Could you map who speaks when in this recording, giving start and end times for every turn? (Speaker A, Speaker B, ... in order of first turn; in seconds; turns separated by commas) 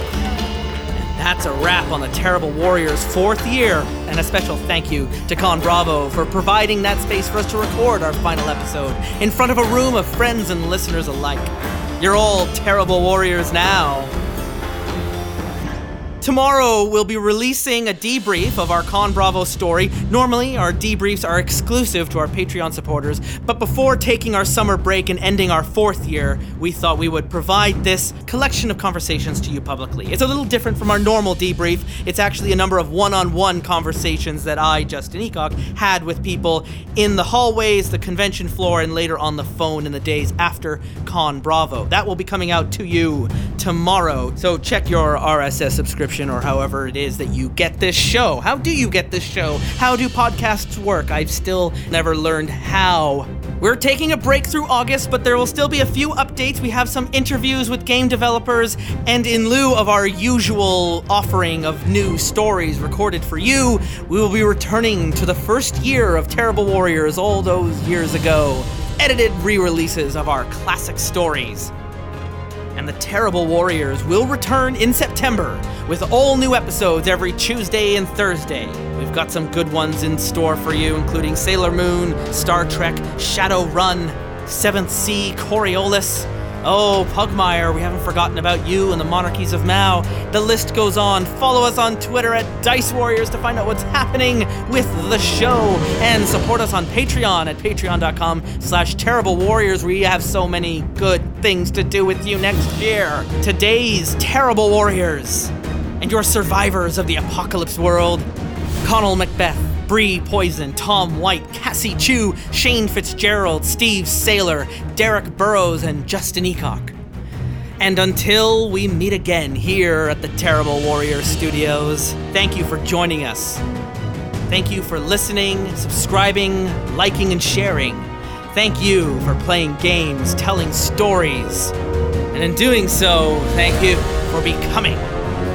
Speaker A: 0.9-14.1, Speaker A: 16.2-71.7, Speaker A: 72.8-108.3, Speaker A: 108.8-116.9, Speaker A: 117.8-123.6, Speaker A: 124.5-131.7, Speaker A: 132.3-135.0